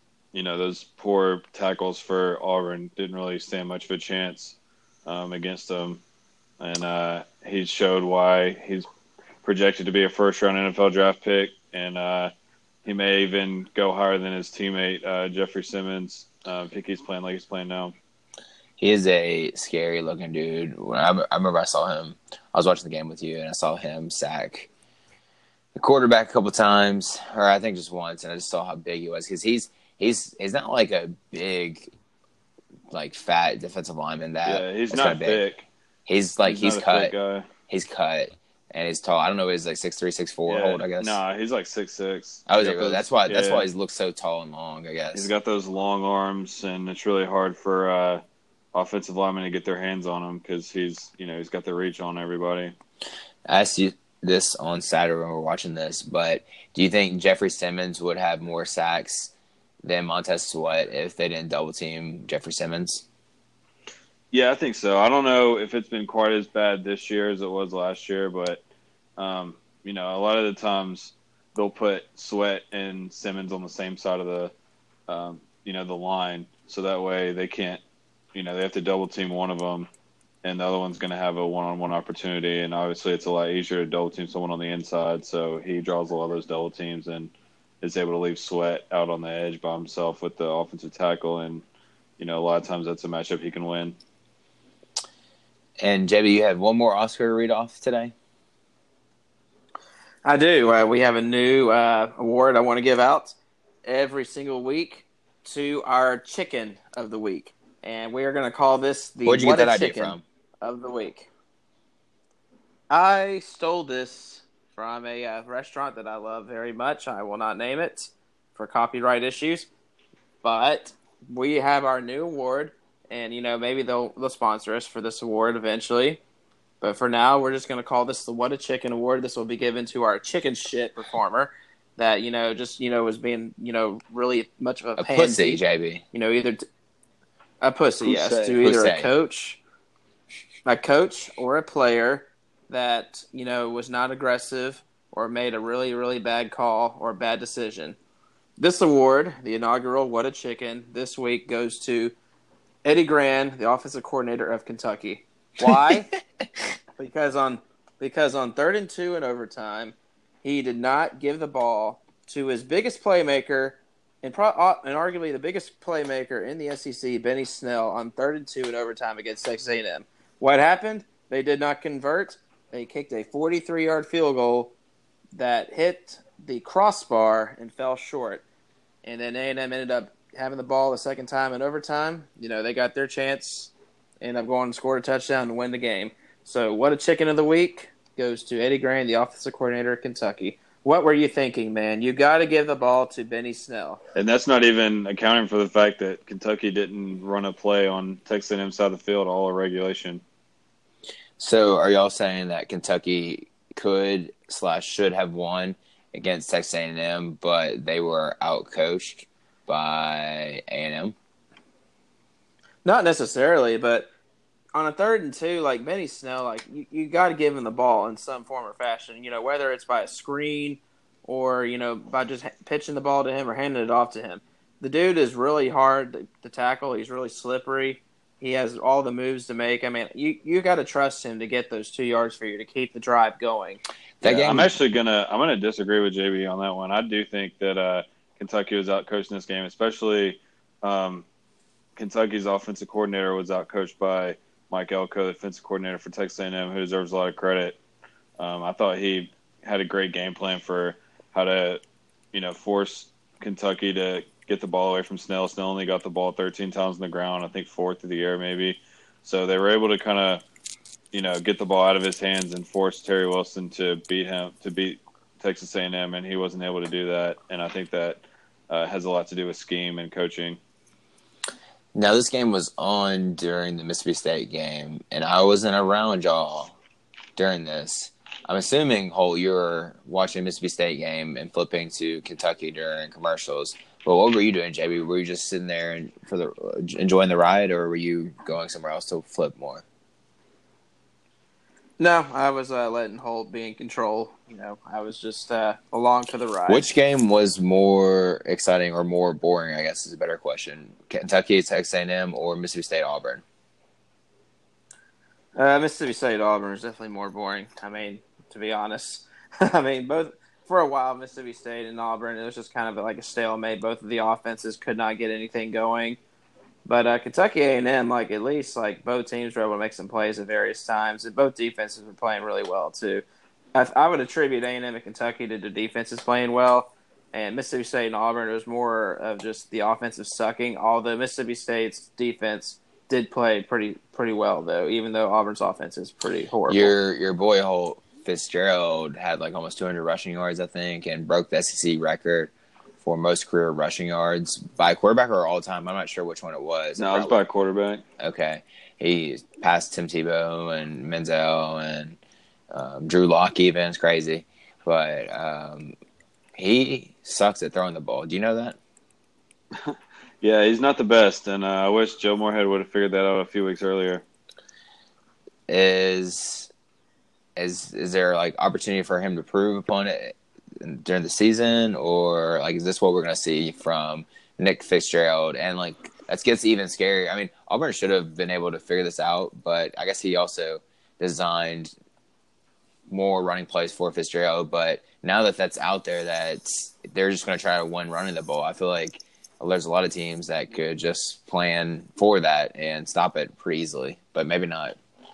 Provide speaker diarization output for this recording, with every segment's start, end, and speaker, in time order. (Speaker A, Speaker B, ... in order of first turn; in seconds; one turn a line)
Speaker A: 0.3-6.0
Speaker A: 6.6-8.9
Speaker A: 9.4-12.3
Speaker A: 12.8-17.9
Speaker B: 18.8-24.7
Speaker B: 25.7-31.9
Speaker B: 32.9-35.4
Speaker A: 34.4-35.7
Speaker B: 36.1-37.1
Speaker A: 36.4-37.5
Speaker B: 37.7-41.2
Speaker A: 40.5-43.7
Speaker B: 42.5-45.3
Speaker A: 45.1-48.2
Speaker A: 48.7-52.7
Speaker B: 53.5-59.3
Speaker B: 59.8-63.0
Speaker A: 64.3-68.6
Speaker A: 69.2-74.5
Speaker A: 75.1-77.8
Speaker A: 78.3-79.9
Speaker A: 80.4-91.6
Speaker A: 92.2-94.0
Speaker B: 95.8-98.1
Speaker C: 100.2-111.3
Speaker B: 109.2-110.2
Speaker C: 112.9-119.7
Speaker C: 120.4-126.2
Speaker C: 126.8-135.6
Speaker B: 135.0-136.0
Speaker C: 136.1-136.6
Speaker C: 137.6-139.6
Speaker A: 138.0-138.6
Speaker B: 138.6-139.1
Speaker C: 140.6-148.0
Speaker C: 148.6-152.1
Speaker C: 152.8-156.1
Speaker C: 157.0-174.7
Speaker C: 175.3-178.4
Speaker C: 179.0-194.0
Speaker A: 194.1-200.2
Speaker B: 201.4-211.1
Speaker C: 212.8-214.1
Speaker C: 214.7-233.8
Speaker B: 234.2-234.7
Speaker A: 234.2-241.2
Speaker A: 241.9-247.8
Speaker A: 248.4-251.8
Speaker A: 252.3-260.4
Speaker A: 261.1-270.6
Speaker B: 271.9-276.8
Speaker B: 277.4-289.8
Speaker C: 292.0-296.9
Speaker B: 296.7-303.4
Speaker C: 305.6-316.2
Speaker C: 316.9-323.2
Speaker C: 323.7-336.9
Speaker B: 336.7-347.4
Speaker A: 347.0-348.0
Speaker B: 348.2-352.2
Speaker B: 352.7-355.9
Speaker B: 356.5-358.8
Speaker A: 359.7-364.2
Speaker B: 365.7-366.7
Speaker B: 367.6-381.9
Speaker B: 383.1-395.0